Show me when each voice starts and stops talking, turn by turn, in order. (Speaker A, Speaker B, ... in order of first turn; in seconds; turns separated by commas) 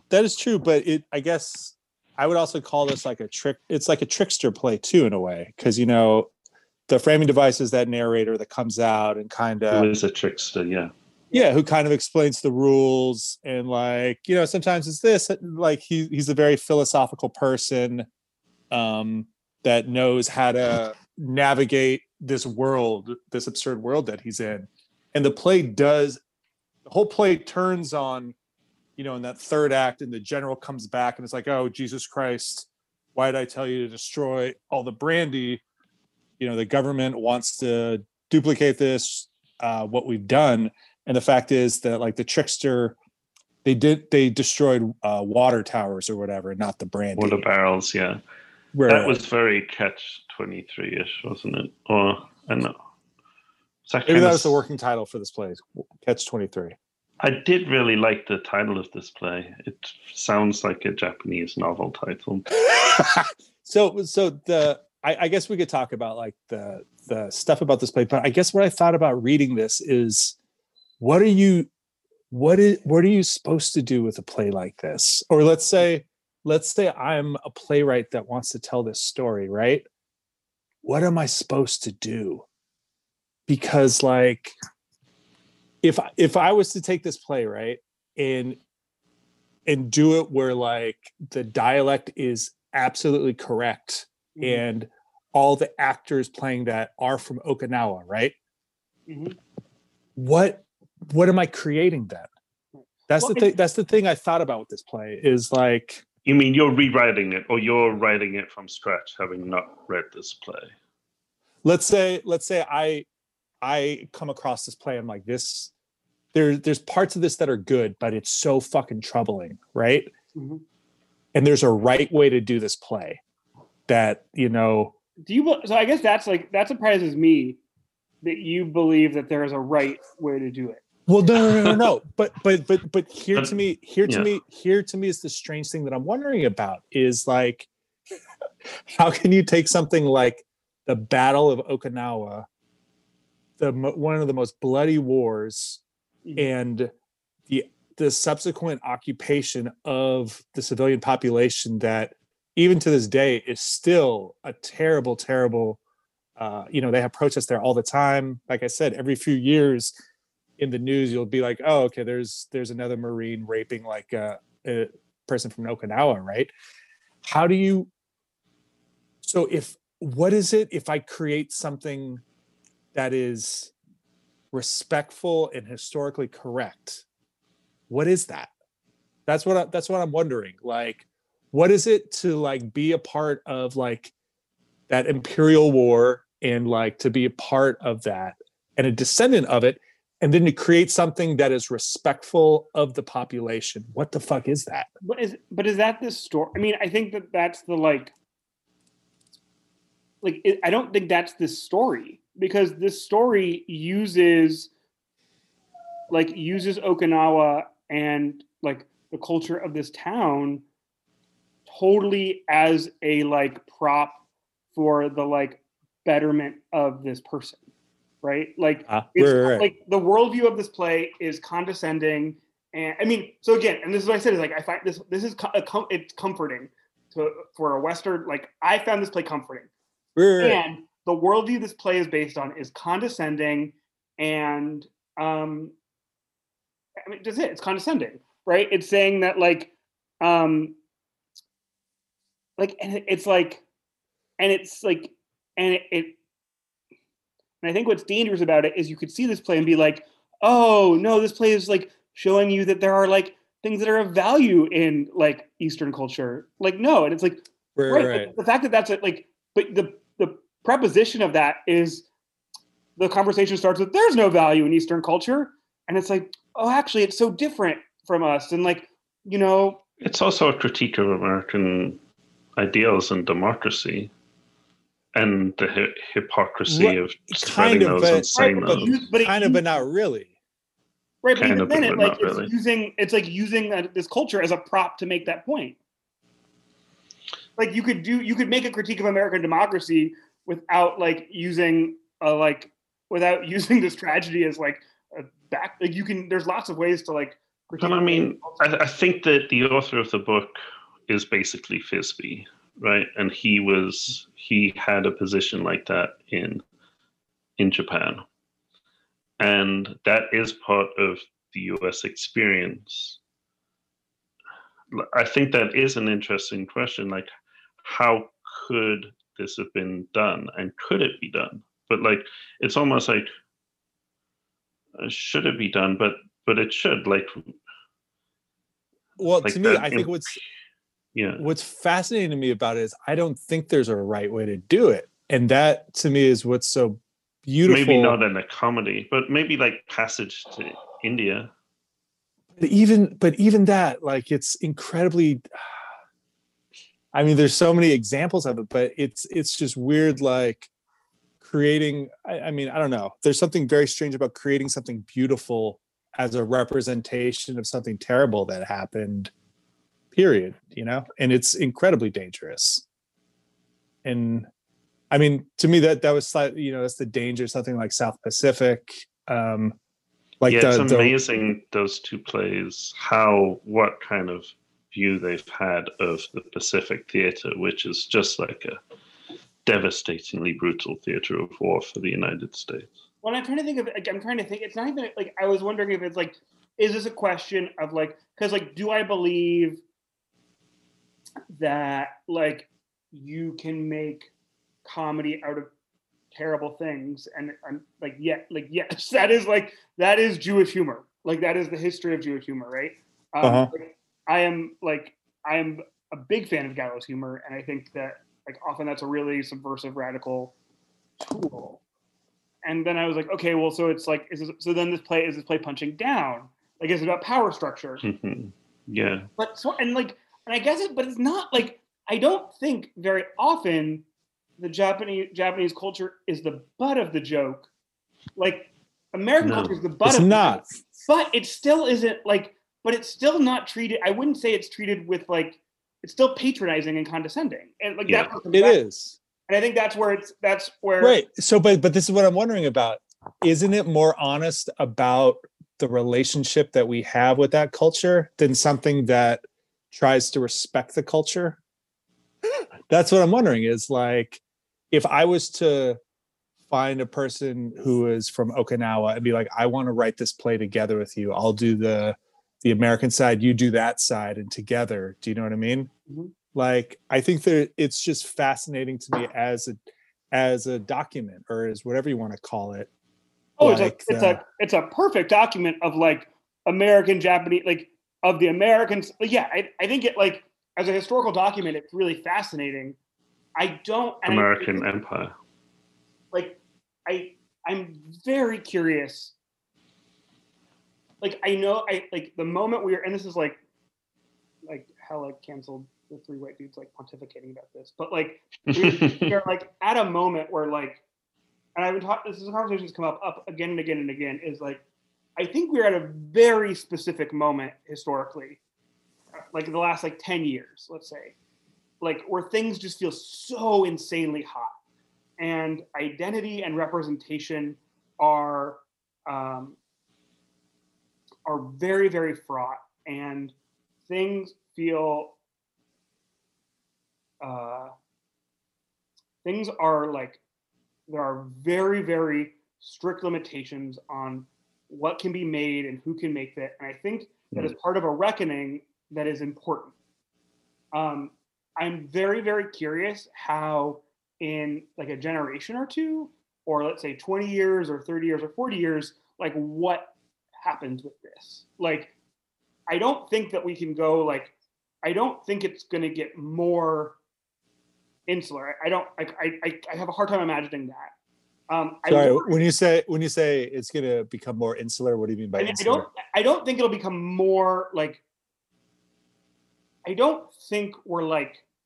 Speaker A: 0.1-6.3, Speaker A: 6.9-9.9, Speaker B: 9.7-10.9, Speaker A: 11.3-18.1, Speaker A: 18.7-26.2, Speaker A: 26.8-28.3, Speaker A: 29.0-35.6, Speaker A: 36.4-43.0, Speaker A: 43.6-47.4, Speaker B: 47.1-48.2, Speaker A: 48.7-49.2, Speaker B: 48.9-52.8, Speaker B: 53.9-54.6, Speaker A: 54.0-56.8, Speaker B: 57.2-62.5, Speaker A: 62.6-70.3, Speaker A: 71.0-71.7, Speaker A: 72.3-79.8, Speaker A: 80.8-82.5, Speaker A: 83.5-84.5, Speaker A: 85.8-88.6, Speaker A: 89.7-98.3, Speaker C: 94.3-94.6, Speaker C: 99.1-99.4, Speaker A: 100.2-102.3, Speaker C: 102.7-103.5, Speaker A: 103.1-106.0, Speaker B: 106.2-110.7, Speaker A: 111.6-113.1, Speaker A: 113.6-115.7, Speaker A: 116.3-120.1, Speaker C: 120.3-120.6, Speaker A: 121.3-123.2, Speaker A: 123.9-124.9, Speaker C: 125.2-127.6, Speaker C: 128.2-130.8, Speaker A: 131.1-137.7, Speaker B: 133.3-134.3, Speaker A: 138.9-142.5, Speaker A: 143.6-145.8, Speaker A: 146.4-146.9, Speaker A: 147.5-155.8, Speaker A: 156.4-159.9, Speaker A: 160.6-166.5, Speaker A: 167.2-167.9, Speaker A: 169.2-172.2, Speaker A: 172.9-173.7, Speaker A: 174.5-177.0, Speaker A: 177.9-178.5, Speaker A: 179.3-184.1, Speaker A: 184.9-194.9, Speaker C: 195.0-198.1, Speaker C: 200.2-204.7, Speaker C: 206.1-210.6, Speaker C: 211.7-214.2, Speaker C: 214.7-217.6, Speaker C: 218.2-229.7, Speaker A: 218.9-219.7, Speaker A: 230.2-230.6, Speaker C: 230.4-235.7, Speaker C: 237.0-240.8, Speaker C: 242.6-243.6, Speaker C: 244.4-246.2, Speaker C: 247.6-262.1, Speaker A: 257.8-258.3, Speaker C: 263.0-269.8, Speaker B: 270.0-272.0, Speaker B: 272.6-274.1, Speaker B: 275.1-279.0, Speaker A: 276.7-280.3, Speaker C: 278.4-279.6, Speaker C: 281.2-285.8, Speaker B: 281.4-282.5, Speaker C: 287.6-298.6, Speaker B: 297.8-300.6, Speaker B: 301.1-306.6, Speaker B: 307.6-308.2, Speaker B: 309.4-313.2, Speaker B: 314.9-317.3, Speaker B: 317.8-323.3, Speaker B: 325.0-327.6, Speaker A: 329.2-330.4, Speaker B: 329.4-330.4, Speaker B: 331.1-331.5, Speaker A: 331.4-338.2, Speaker B: 337.6-341.5, Speaker A: 342.6-345.8, Speaker A: 347.1-350.7, Speaker A: 351.4-359.3, Speaker A: 360.1-362.8, Speaker A: 364.0-364.5, Speaker A: 365.1-369.8, Speaker A: 370.4-371.1, Speaker B: 370.5-378.8, Speaker B: 379.6-382.9, Speaker C: 383.2-389.8, Speaker C: 391.5-394.3, Speaker C: 394.8-395.7, Speaker C: 396.3-410.5, Speaker A: 403.4-403.7, Speaker C: 411.2-411.8, Speaker C: 412.6-418.0, Speaker B: 418.0-419.3, Speaker C: 419.4-424.0, Speaker C: 424.6-427.7, Speaker C: 428.4-438.8, Speaker B: 429.4-429.7, Speaker A: 430.0-430.7, Speaker B: 438.1-438.3, Speaker A: 438.5-439.2, Speaker C: 439.5-441.2, Speaker A: 441.0-451.6, Speaker A: 452.9-456.0, Speaker A: 456.7-465.9, Speaker C: 466.1-466.3, Speaker A: 466.5-469.8, Speaker A: 470.3-472.9, Speaker C: 473.6-483.0, Speaker A: 473.6-474.4, Speaker C: 483.6-484.8, Speaker B: 484.2-485.3, Speaker C: 486.3-489.3, Speaker C: 491.2-493.6, Speaker C: 494.6-501.0, Speaker B: 498.7-499.4, Speaker C: 501.8-504.8, Speaker C: 505.4-508.6, Speaker C: 509.4-511.4, Speaker C: 512.0-514.8, Speaker C: 515.4-519.8, Speaker C: 521.4-523.5, Speaker C: 524.1-525.4, Speaker C: 527.4-527.9, Speaker C: 529.4-530.4, Speaker C: 531.1-539.9, Speaker C: 540.9-552.1, Speaker C: 552.9-557.2, Speaker C: 558.3-561.1, Speaker C: 561.7-562.6, Speaker A: 562.1-566.1, Speaker C: 565.6-568.2, Speaker C: 570.0-571.6